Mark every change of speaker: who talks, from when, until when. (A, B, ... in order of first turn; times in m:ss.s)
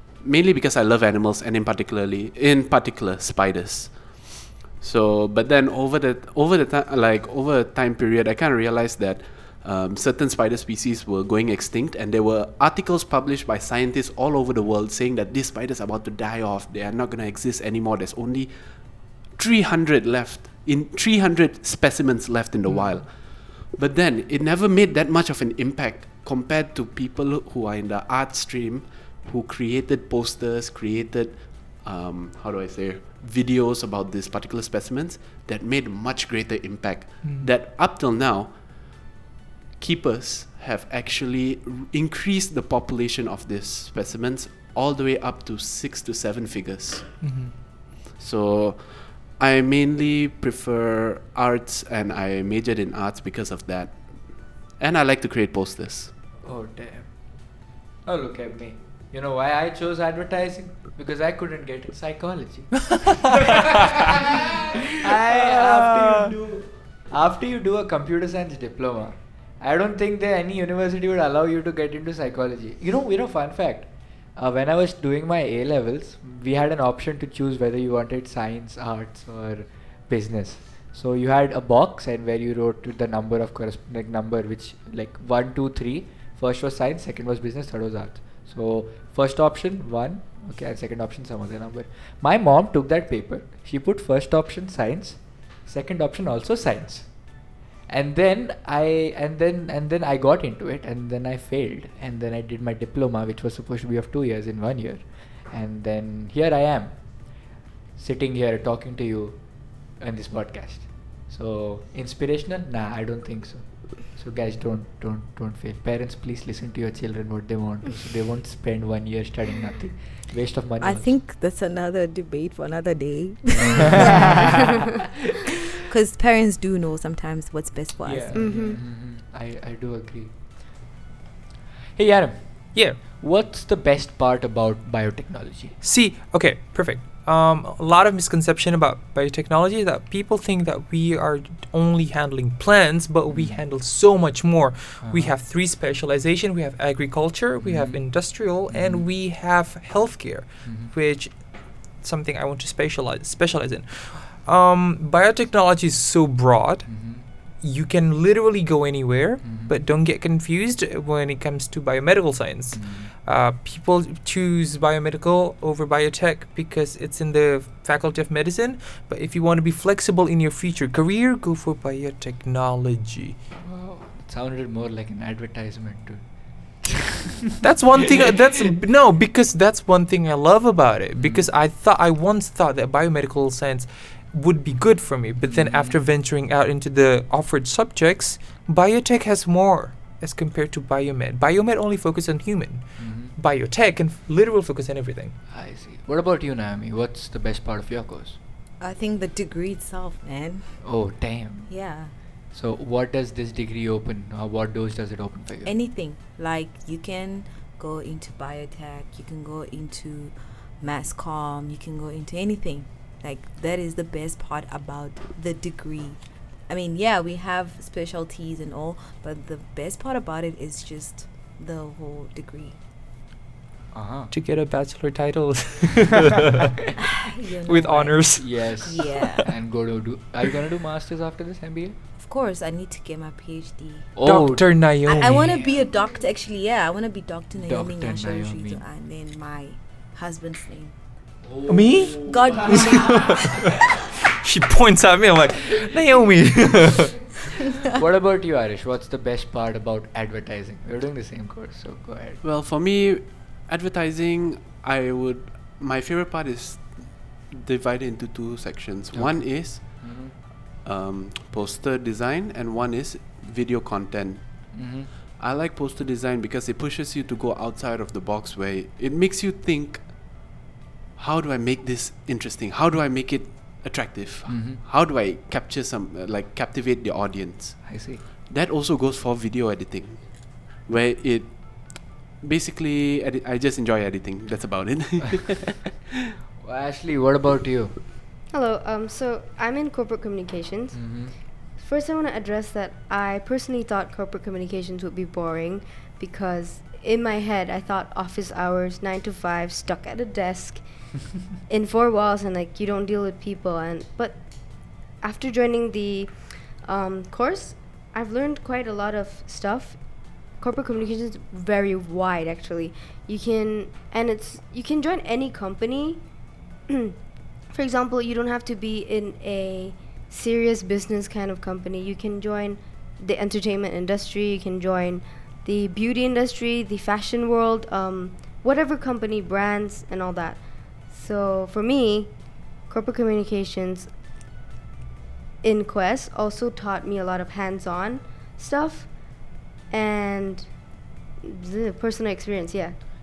0:00.2-0:38.6 A
0:37.2-0:37.5 B
0:39.8-0:47.2 A
0:47.2-0:47.5 B
0:48.2-0:56.1 A
0:56.4-0:57.1 C
0:58.0-1:37.1 C
1:02.8-1:04.2 B
1:05.0-1:06.3 B
1:37.9-1:47.0 C
1:48.0-1:49.4 C
1:50.0-2:01.1 C
2:00.8-2:04.6 D
2:03.6-2:04.7 C
2:05.8-2:08.7 D
2:08.1-2:08.5 B
2:08.1-2:10.3 C
2:08.3-2:08.8 E
2:11.9-2:15.8 C
2:15.8-2:37.1 B
2:23.3-2:23.6 C
2:25.0-2:25.3 C
2:27.6-2:29.1 C
2:30.6-2:30.9 C
2:36.9-2:37.2 C
2:37.6-2:53.4 B
2:39.4-2:39.7 C
2:42.7-2:43.1 C
2:53.6-2:56.2 C
2:56.8-2:58.3 C
2:57.6-3:15.4 B
3:01.2-3:01.5 C
3:05.4-3:06.0 C
3:13.0-3:13.3 C
3:15.5-3:18.4 C
3:18.8-3:20.8 D
3:20.8-3:21.7 C
3:21.7-3:22.1 D
3:22.5-3:25.7 C
3:25.6-3:42.8 D
3:43.9-3:44.3 C
3:44.3-3:46.9 B
3:47.0-3:48.3 D
3:47.6-3:49.5 B
3:48.4-3:52.0 C
3:48.8-3:49.4 D
3:52.2-3:54.1 D
3:54.2-3:55.7 C
3:54.2-3:55.5 B
3:55.0-4:00.9 D
3:57.5-3:58.8 C
4:01.5-4:03.2 C
4:01.7-4:07.2 B
4:02.2-4:03.3 D
4:07.8-4:12.4 C
4:12.4-4:20.1 A
4:19.1-4:20.3 C
4:20.8-4:30.4 A
4:24.7-4:25.1 C
4:31.2-4:46.0 A
4:34.5-4:34.8 C
4:37.8-4:38.2 C
4:46.6-4:47.9 C
4:48.5-4:51.2 E
4:50.9-4:51.3 C
4:51.8-5:00.8 E
5:01.7-5:04.4 E
5:05.2-5:06.3 E
5:06.8-5:10.0 E
5:10.5-5:16.2 E
5:16.9-5:17.2 E
5:17.7-5:32.3 E
5:32.9-5:34.1 E
5:35.6-5:40.7 E
5:41.4-5:43.0 E